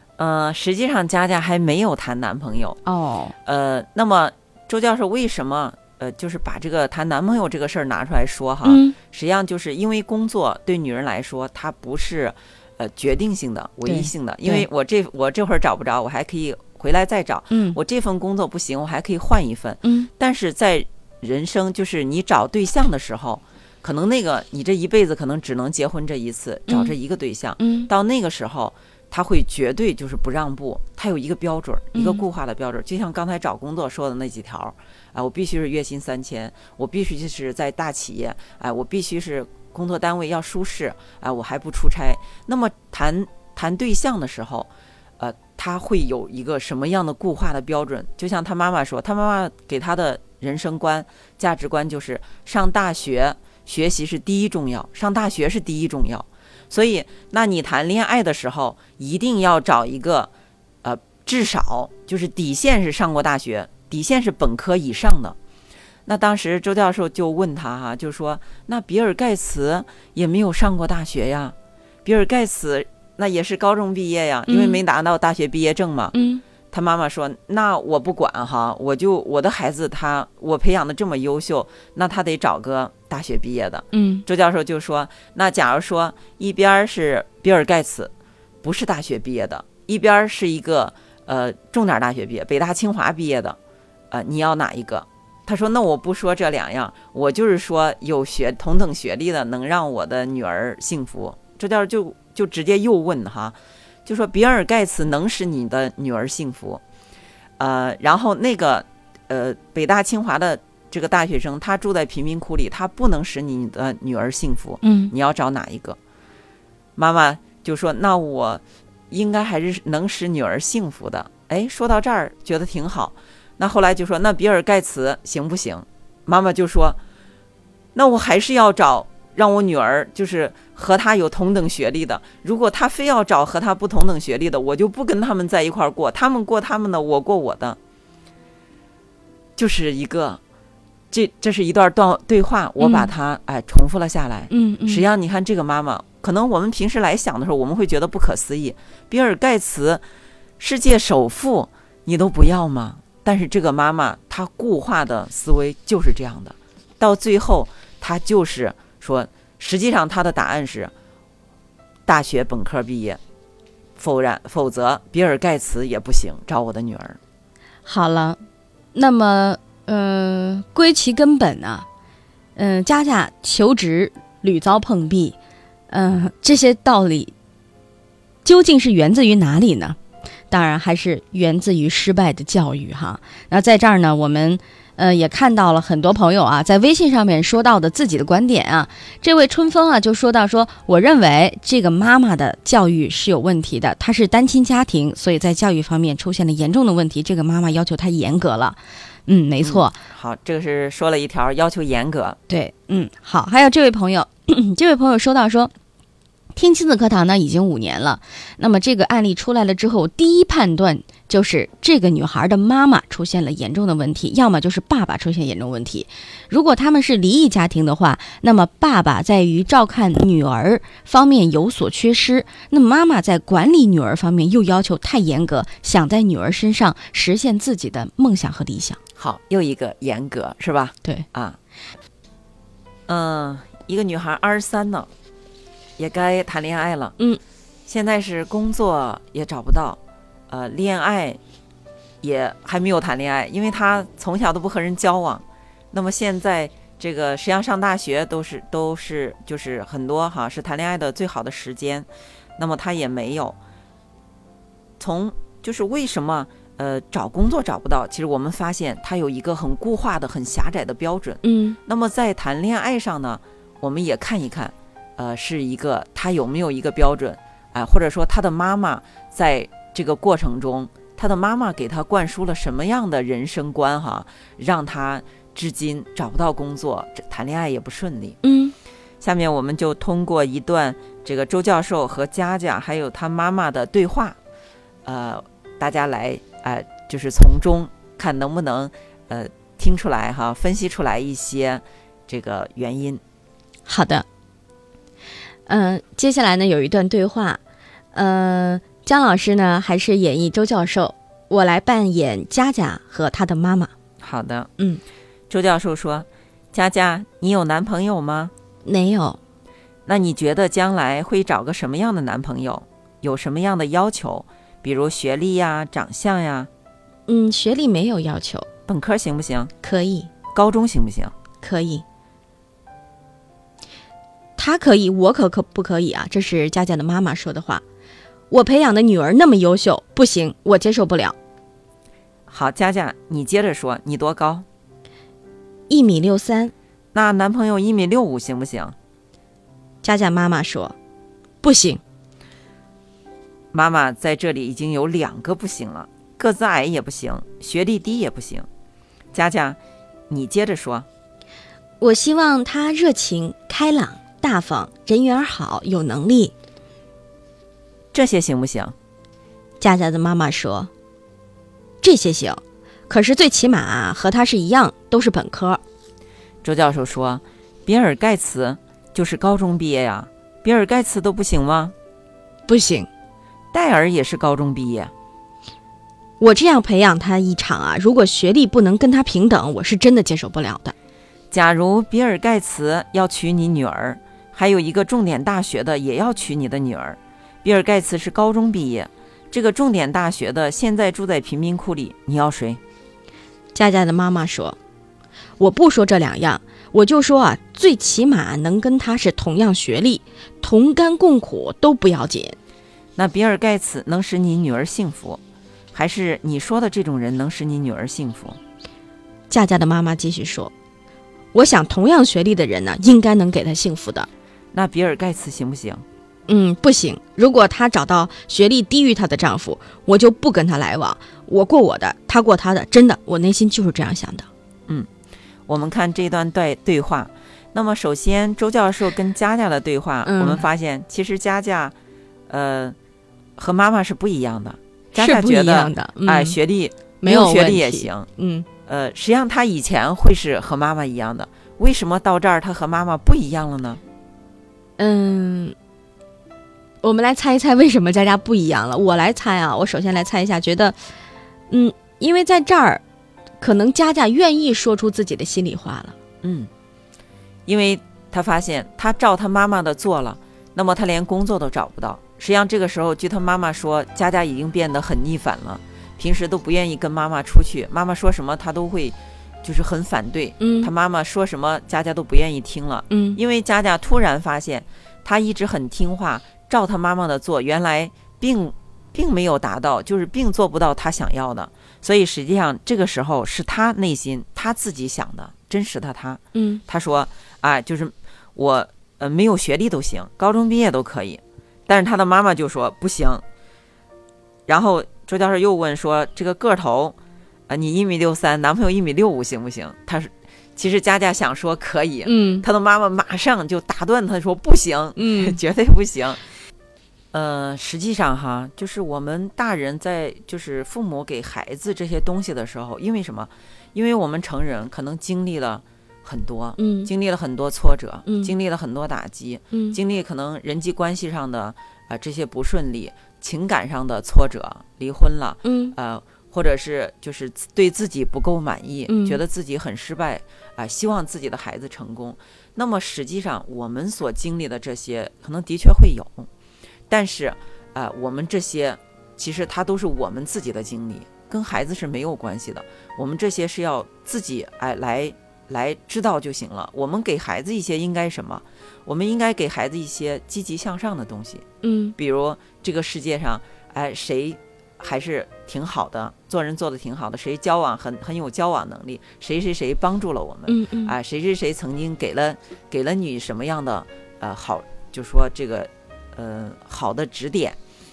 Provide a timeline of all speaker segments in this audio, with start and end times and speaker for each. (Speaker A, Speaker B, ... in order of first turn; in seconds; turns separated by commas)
Speaker A: 0.2-2.8, Speaker B: 2.9-3.3, Speaker A: 3.4-60.3, Speaker B: 8.6-8.9, Speaker B: 13.8-14.7, Speaker B: 17.5-17.8, Speaker B: 19.8-20.1, Speaker B: 26.7-26.9, Speaker B: 27.6-27.9, Speaker B: 31.9-32.2, Speaker A: 60.8-65.4, Speaker A: 66.0-76.1, Speaker B: 74.5-74.8, Speaker B: 76.1-76.4, Speaker A: 76.7-93.6, Speaker B: 83.9-84.2, Speaker A: 94.1-106.8, Speaker A: 107.6-116.0, Speaker B: 114.8-115.1, Speaker A: 117.0-127.0, Speaker A: 127.9-137.8, Speaker A: 139.6-140.4, Speaker A: 141.1-150.0, Speaker B: 142.8-143.1, Speaker B: 144.5-145.0, Speaker A: 150.6-160.9, Speaker A: 162.1-163.2, Speaker A: 164.0-167.2, Speaker B: 167.8-168.4, Speaker B: 168.9-171.8, Speaker B: 172.6-175.3, Speaker B: 175.9-177.3, Speaker B: 178.4-180.0, Speaker B: 180.5-199.9, Speaker A: 199.6-202.4, Speaker B: 202.5-205.7, Speaker B: 206.6-229.0, Speaker A: 229.2-231.6, Speaker A: 233.1-235.1, Speaker A: 236.0-237.2, Speaker A: 237.9-240.0, Speaker A: 240.5-241.4, Speaker A: 242.2-253.6, Speaker A: 255.0-278.4, Speaker B: 261.4-261.8, Speaker B: 278.4-278.7, Speaker A: 279.2-284.4, Speaker A: 285.0-293.2, Speaker B: 293.9-294.2, Speaker B: 295.7-297.6, Speaker B: 298.1-303.9, Speaker A: 304.2-304.7, Speaker A: 305.5-308.5, Speaker B: 308.8-309.4, Speaker A: 310.1-316.7, Speaker B: 317.3-318.7, Speaker A: 318.9-319.7, Speaker B: 319.8-320.3, Speaker A: 320.5-321.3, Speaker B: 321.6-322.0, Speaker B: 324.6-327.8, Speaker B: 328.5-331.4, Speaker A: 332.5-334.6, Speaker B: 335.9-336.7, Speaker A: 337.1-338.9, Speaker B: 340.0-340.9, Speaker B: 341.6-342.0, Speaker A: 343.7-348.6, Speaker A: 349.3-349.8, Speaker A: 350.3-351.1, Speaker B: 352.0-356.5, Speaker A: 358.1-358.9, Speaker B: 359.8-360.9, Speaker B: 362.0-365.8, Speaker A: 366.6-371.9, Speaker B: 372.7-373.1, Speaker A: 373.7-375.1, Speaker B: 376.4-380.9, Speaker A: 381.5-392.8, Speaker B: 393.7-394.8, Speaker B: 395.6-402.6, Speaker A: 403.2-405.4, Speaker A: 405.9-408.6, Speaker B: 409.5-410.7, Speaker B: 411.5-414.3, Speaker A: 414.7-416.0, Speaker B: 416.5-424.5, Speaker A: 425.7-431.9, Speaker B: 430.2-430.6, Speaker A: 432.5-432.9, Speaker A: 433.6-438.3, Speaker B: 435.1-436.6, Speaker B: 437.2-438.6, Speaker A: 438.9-444.0, Speaker B: 445.0-445.8, Speaker B: 447.0-451.0, Speaker B: 451.7-453.0, Speaker B: 453.6-456.1, Speaker A: 456.4-456.7, Speaker A: 457.6-493.4, Speaker B: 470.6-470.9, Speaker B: 473.1-473.4, Speaker B: 486.5-486.8, Speaker A: 494.7-497.1, Speaker A: 497.7-506.4, Speaker B: 502.2-502.6, Speaker B: 505.1-505.6, Speaker A: 507.3-536.5, Speaker B: 516.8-517.1, Speaker B: 518.2-518.5, Speaker B: 519.7-520.0, Speaker B: 525.6-525.9, Speaker B: 529.1-529.4, Speaker A: 537.1-551.6, Speaker B: 551.8-552.1, Speaker A: 552.2-567.8, Speaker B: 560.7-561.1